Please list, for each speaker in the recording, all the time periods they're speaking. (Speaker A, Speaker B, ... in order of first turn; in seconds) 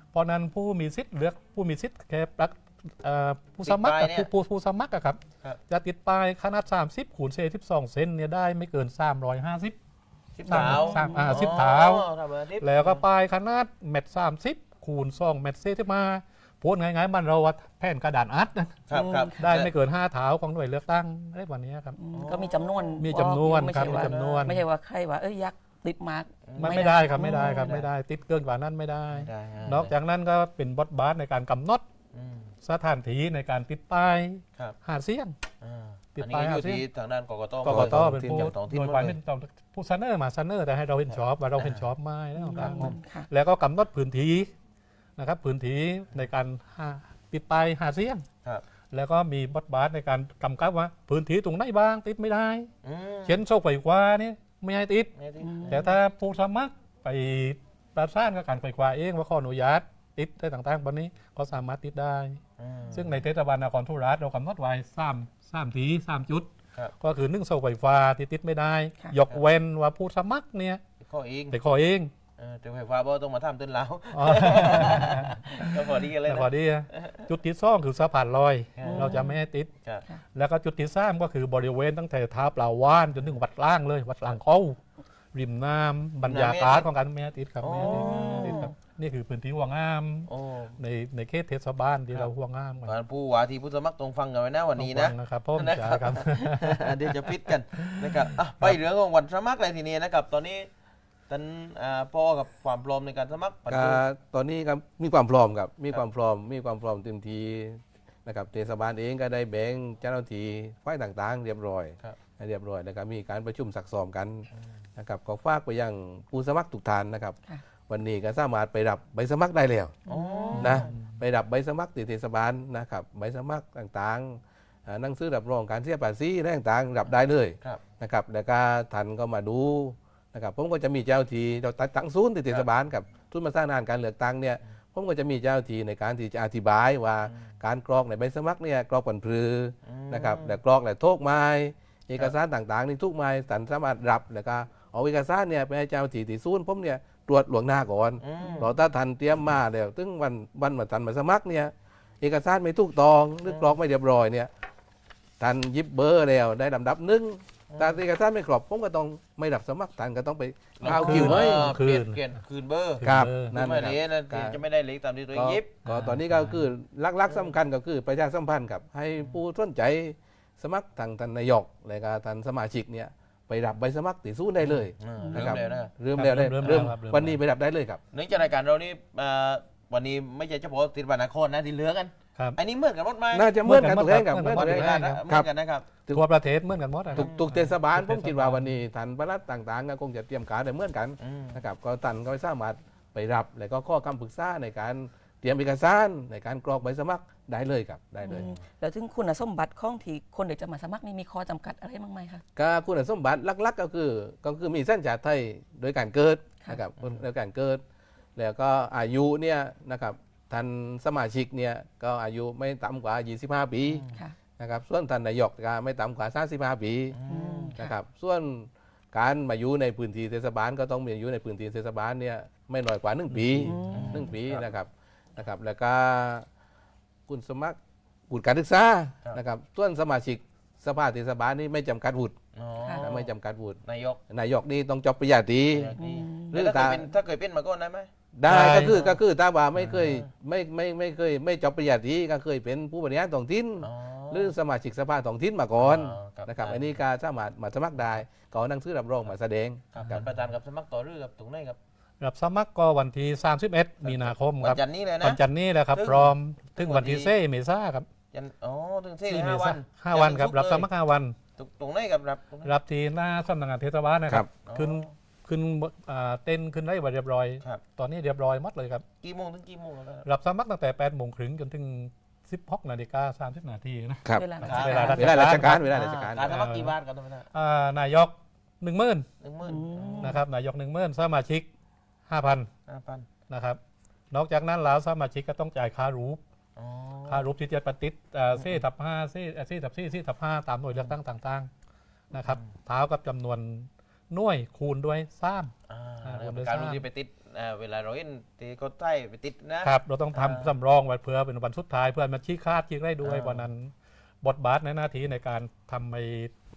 Speaker A: 0.1-9.8, 10.4-12.1, 12.6-18.8, 19.4-22.0, 23.0-24.6, 26.6-31.8, 32.6-35.3, 36.2-36.8, 37.6-44.5, 45.2-48.2, 48.9-52.7, 53.2-55.1, 55.7-62.4, 62.9-70.8, 71.5-72.1, 74.1-79.7, 80.3-84.8, 85.3-93.0, 94.8-96.8, 120.6-120.9, 160.8-162.2, 163.0-163.6, 165.9-166.6, 176.1-177.4, 183.6-185.2, 186.1-188.7, 238.5-239.0, 252.2-258.1, 259.3-261.4, 262.6-269.0, 270.2-276.9, 277.5-279.3, 280.2-281.7, 282.3-282.7, 283.5-283.8, 284.3-286.4, 287.3-291.7, 292.3-295.7, 296.2-297.1, 299.8-306.5
Speaker B: 3.6-4.3, 10.4-13.0, 18.9-19.7, 22.1-23.0, 23.7-24.5, 26.5-27.9, 29.1-29.9, 32.1-32.5, 35.6-39.1, 41.1-41.9, 52.8-53.4, 55.2-55.9, 62.6-63.2, 71.0-71.6, 72.4-77.2, 78.8-79.2, 86.2-86.9, 87.6-88.7, 90.2-90.8, 92.8-100.7, 101.3-104.0, 120.1-120.9, 137.2-137.5, 139.8-140.6, 148.2-148.7, 153.4-153.8, 157.7-158.0, 160.8-165.8, 174.6-175.9, 176.6-176.9, 178.1-183.5, 184.4-185.9, 187.1-187.5, 191.2-191.6, 198.3-198.6, 207.0-207.2, 213.8-214.2, 217.1-217.8, 223.3-224.6, 232.5-233.3, 233.8-234.2, 235.7-238.1, 238.6-239.2, 239.8-240.3, 243.8-244.6, 245.8-247.0, 249.9-251.8, 254.0-257.3, 258.3-260.9, 261.6-262.7, 264.6-265.1, 269.2-270.2, 274.6-277.5, 279.4-280.4, 282.9-283.3, 286.8-287.5, 288.6-288.8, 292.4-292.7, 295.9-300.7, 303.2-303.7
Speaker C: 10.4-11.5, 18.9-19.5, 21.9-27.8, 42.3-43.3, 55.4-56.0, 78.8-79.4, 87.8-88.7, 120.0-120.8, 175.2-175.8, 198.2-202.4, 217.3-217.9, 223.6-224.3, 232.8-233.1, 236.0-236.6, 274.4-275.3, 279.6-280.4
Speaker D: 37.6-38.5, 103.7-120.0, 120.6-154.5, 155.4-161.7, 163.0-164.6, 165.3-178.0, 183.3-185.5, 187.1-198.5, 202.6-207.8, 208.3-214.1, 214.6-217.2, 217.7-226.4, 227.3-227.8, 228.3-232.3, 233.0-235.9, 236.5-237.1, 238.3-250.3, 275.1-276.5